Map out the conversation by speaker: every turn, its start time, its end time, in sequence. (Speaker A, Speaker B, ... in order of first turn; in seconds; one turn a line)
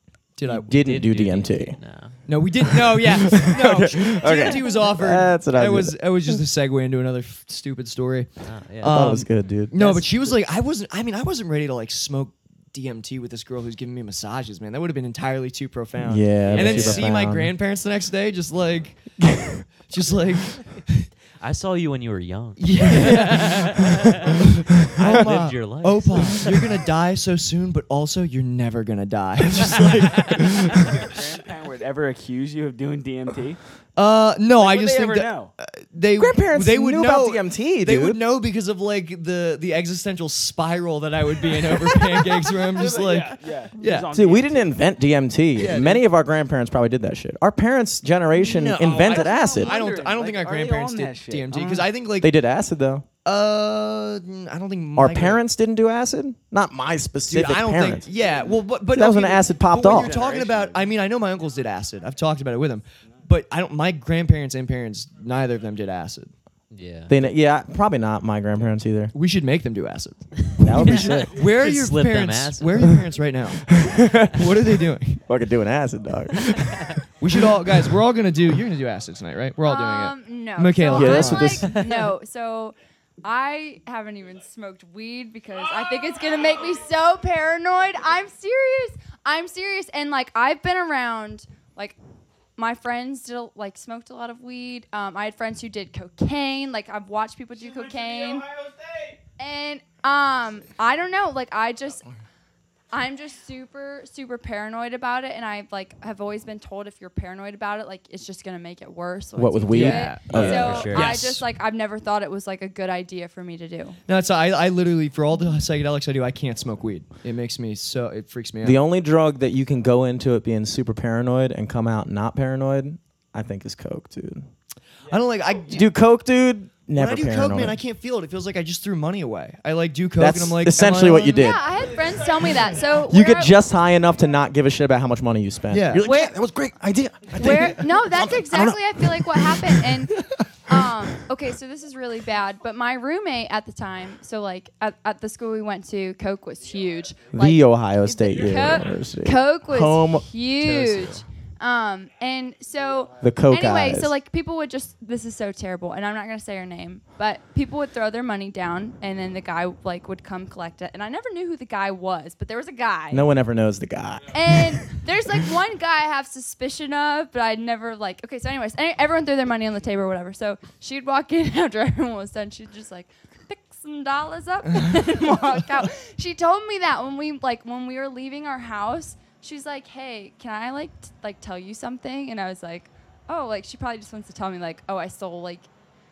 Speaker A: 0.3-0.7
Speaker B: 0.5-1.8
Speaker C: 0.7-2.2
Speaker A: 2.3-8.3
Speaker B: 2.9-6.4
Speaker C: 8.4-9.0
Speaker A: 8.8-19.1
Speaker B: 8.8-10.3
Speaker B: 16.0-17.5
Speaker C: 16.5-17.1
Speaker B: 19.2-19.6
Speaker A: 19.7-21.1
Speaker C: 21.4-26.6
Speaker A: 22.6-23.8
Speaker A: 24.9-31.0
Speaker D: 30.7-33.6
Speaker A: 34.0-44.1
Speaker D: 34.6-35.5
Speaker B: 36.2-38.2
Speaker D: 42.7-44.7
Speaker B: 44.1-49.8
Speaker A: 45.5-46.0
Speaker A: 48.4-52.3
Speaker D: 48.8-51.9
Speaker B: 52.2-53.0
Speaker A: 53.2-55.4
Speaker B: 55.0-58.1
Speaker A: 57.3-66.3
Speaker B: 58.9-60.1
Speaker D: 59.8-60.9
Speaker C: 66.7-67.2
Speaker B: 67.1-69.1
Speaker A: 69.1-75.2
Speaker B: 70.6-71.4
Speaker C: 70.7-72.9
Speaker B: 73.7-74.5
Speaker B: 75.2-77.0
Speaker A: 77.2-81.7
Speaker E: 79.6-92.0
Speaker B: 80.9-81.8
Speaker E: 92.6-98.5
Speaker D: 97.5-99.2
Speaker E: 99.4-102.0
Speaker E: 102.9-114.0
Speaker B: 109.3-110.9
Speaker A: 109.7-111.4
Speaker C: 110.3-111.2
Speaker A: 114.1-118.8
Speaker B: 118.6-124.5
Speaker A: 125.1-125.9
Speaker B: 125.7-127.8
Speaker A: 126.9-131.5
Speaker B: 130.2-131.6
Speaker E: 131.3-133.5
Speaker B: 133.1-140.1
Speaker A: 135.7-136.1
Speaker E: 136.0-136.3
Speaker E: 137.3-163.3
Speaker B: 147.3-150.3
Speaker C: 150.6-151.2
Speaker B: 153.2-154.1
Speaker B: 163.1-164.8
Speaker E: 164.3-185.7